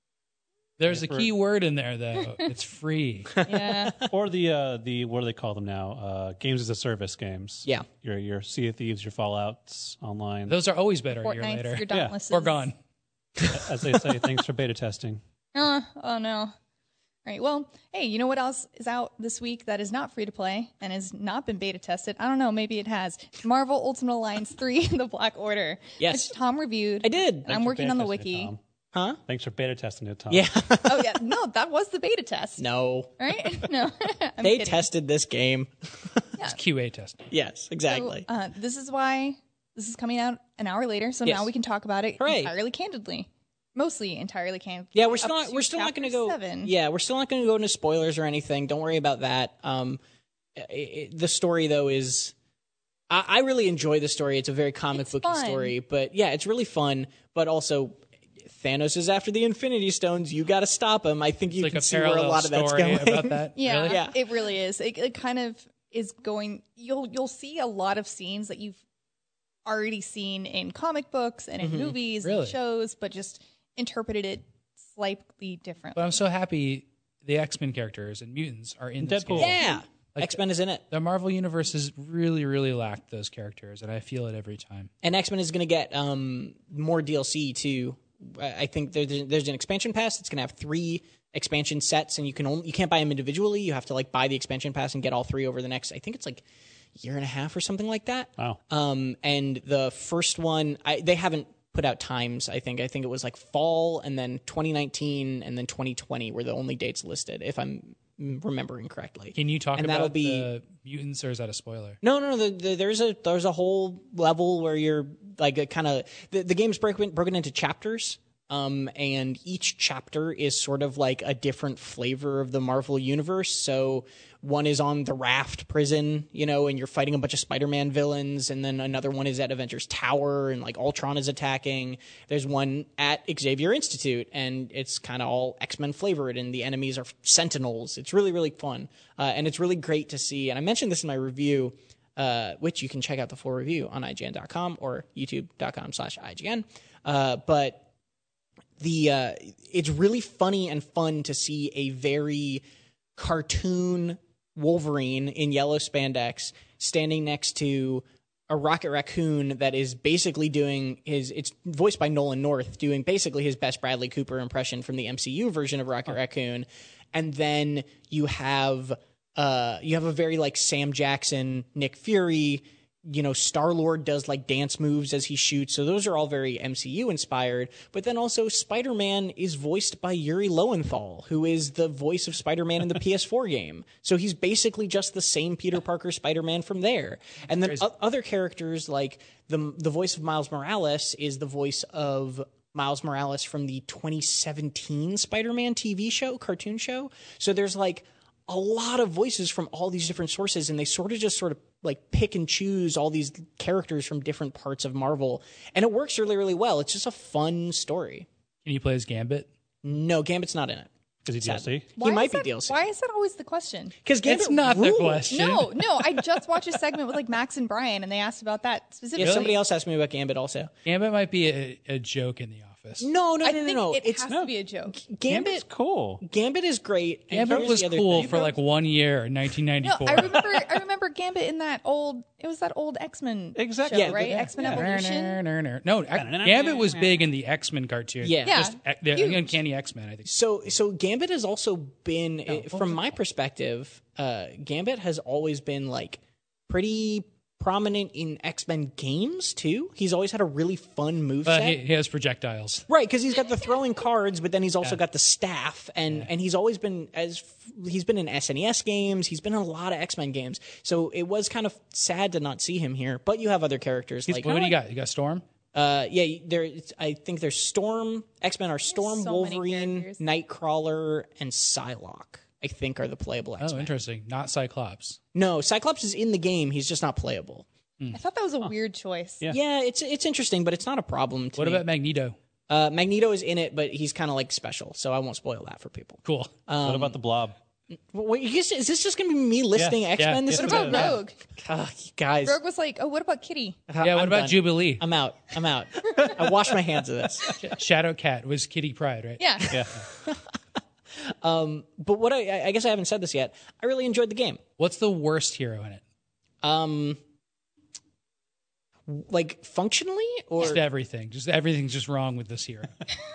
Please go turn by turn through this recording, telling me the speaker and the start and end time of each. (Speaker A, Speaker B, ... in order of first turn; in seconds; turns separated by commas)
Speaker A: 0.8-3.4, Speaker B: 0.9-1.3, Speaker C: 3.4-4.1, Speaker D: 3.4-4.0, Speaker B: 4.1-10.6, Speaker A: 10.5-12.8, Speaker D: 11.2-12.7, Speaker B: 11.9-12.2, Speaker B: 13.5-15.2, Speaker D: 15.6-16.5, Speaker D: 17.2-28.5, Speaker C: 26.0-26.3, Speaker C: 27.0-27.5, Speaker B: 27.5-28.6, Speaker C: 28.9-29.2, Speaker B: 29.3-30.5, Speaker C: 30.3-31.2, Speaker D: 30.8-32.6, Speaker C: 32.6-33.5, Speaker D: 33.2-34.8, Speaker C: 34.4-36.3, Speaker A: 36.4-37.2, Speaker C: 37.3-38.3, Speaker D: 37.9-46.7, Speaker C: 42.2-42.5, Speaker C: 45.0-50.0, Speaker C: 50.5-52.3, Speaker C: 53.1-64.2, Speaker D: 55.0-55.8, Speaker A: 61.6-64.0, Speaker D: 63.6-68.8, Speaker D: 69.7-76.0, Speaker C: 71.6-72.0, Speaker A: 72.2-72.6, Speaker A: 76.0-79.6, Speaker B: 79.0-79.6, Speaker C: 79.3-80.8, Speaker A: 80.2-80.4, Speaker A: 80.9-84.9, Speaker C: 85.0-96.4, Speaker C: 97.0-110.5, Speaker A: 109.3-112.0, Speaker C: 112.0-147.9, Speaker C: 148.8-152.6, Speaker C: 153.2-208.3, Speaker A: 208.7-209.5, Speaker C: 209.8-212.8, Speaker B: 211.3-211.9, Speaker D: 212.0-213.9, Speaker C: 214.1-215.5, Speaker A: 214.2-215.8, Speaker D: 215.3-219.6, Speaker C: 219.2-220.7, Speaker A: 219.2-219.5, Speaker A: 220.8-223.1, Speaker C: 223.0-224.3, Speaker D: 223.4-225.0, Speaker C: 224.9-225.7, Speaker B: 225.3-226.2, Speaker C: 226.2-228.5, Speaker A: 227.3-230.5, Speaker B: 227.5-228.5, Speaker D: 229.8-235.4, Speaker B: 233.6-234.8, Speaker C: 233.9-234.5, Speaker A: 234.5-240.3, Speaker B: 236.2-237.2, Speaker C: 238.2-238.7, Speaker D: 238.4-239.6, Speaker C: 240.2-251.8, Speaker A: 242.5-243.0, Speaker A: 251.5-252.8, Speaker C: 252.9-264.7, Speaker A: 264.3-265.4, Speaker C: 265.7-273.9, Speaker D: 268.9-270.2, Speaker A: 273.6-275.2, Speaker C: 275.3-277.7, Speaker D: 278.1-279.4, Speaker C: 279.5-281.8, Speaker A: 281.6-282.4, Speaker C: 282.7-287.2, Speaker A: 286.2-286.5, Speaker B: 286.8-287.6, Speaker C: 288.0-292.6, Speaker B: 289.8-291.1, Speaker A: 290.2-291.1, Speaker D: 290.5-291.4, Speaker D: 292.4-293.8, Speaker C: 293.9-297.6, Speaker A: 294.0-295.0, Speaker A: 297.6-300.0, Speaker D: 299.4-299.7, Speaker C: 299.9-300.5, Speaker C: 301.2-304.6, Speaker A: 304.8-306.0, Speaker C: 306.6-307.2, Speaker C: 309.1-310.8, Speaker A: 310.6-313.1